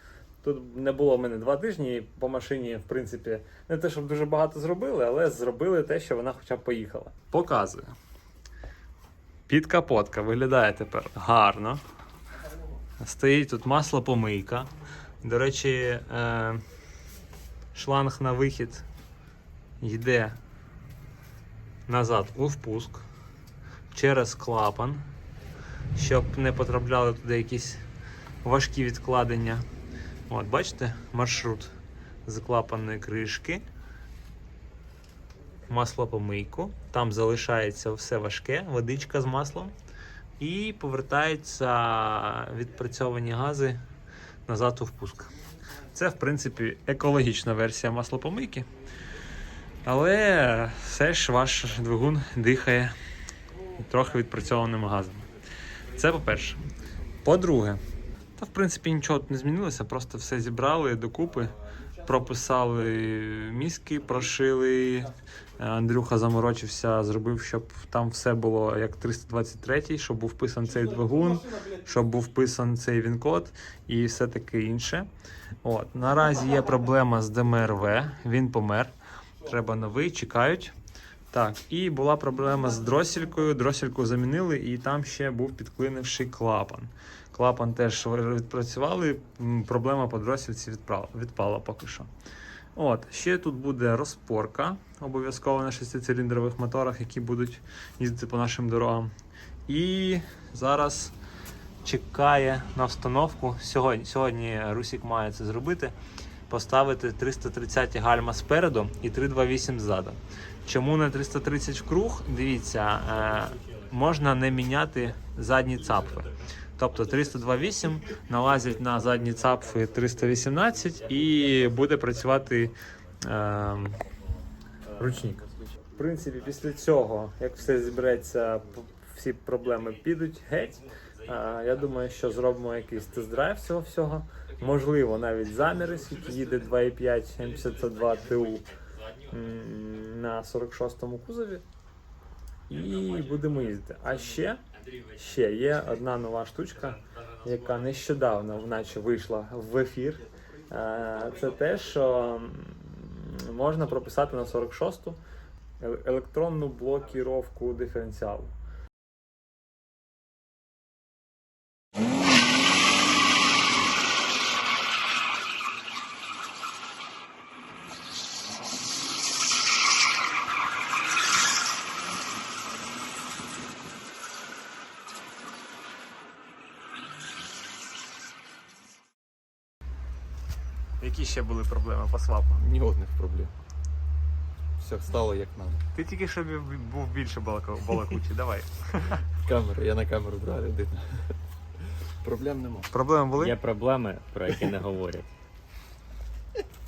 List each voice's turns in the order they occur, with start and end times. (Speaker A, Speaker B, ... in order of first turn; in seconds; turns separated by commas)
Speaker A: 0.4-8.0, Speaker A: 9.5-11.8, Speaker A: 13.0-14.7, Speaker A: 15.2-16.6, Speaker A: 17.7-18.9, Speaker A: 19.8-20.4, Speaker A: 21.9-23.1, Speaker A: 23.9-25.1, Speaker A: 25.9-27.9, Speaker A: 28.4-29.6, Speaker A: 30.3-33.7, Speaker A: 35.7-39.8, Speaker A: 40.4-43.8, Speaker A: 44.5-45.3, Speaker A: 45.9-48.7, Speaker A: 49.9-53.0, Speaker A: 53.7-55.3, Speaker A: 55.8-56.6, Speaker A: 57.2-57.8, Speaker A: 58.4-75.1, Speaker A: 75.6-80.7, Speaker A: 81.3-92.1, Speaker A: 92.8-99.1, Speaker A: 99.7-101.1, Speaker A: 101.8-106.0, Speaker A: 106.5-124.0, Speaker B: 121.0-122.0, Speaker A: 125.0-125.5, Speaker C: 125.0-125.9, Speaker A: 126.0-138.7, Speaker B: 130.9-133.4, Speaker B: 137.6-139.2, Speaker A: 139.3-141.6, Speaker A: 142.7-144.6, Speaker B: 142.7-145.4, Speaker A: 145.2-155.2, Speaker B: 146.8-148.9, Speaker C: 150.4-150.8, Speaker B: 151.2-151.6, Speaker A: 155.8-158.6, Speaker A: 181.0-182.7, Speaker C: 182.6-183.5, Speaker C: 184.8-185.8, Speaker A: 185.9-189.2, Speaker C: 189.4-191.3, Speaker C: 192.2-192.9, Speaker A: 192.9-193.6, Speaker B: 193.4-195.3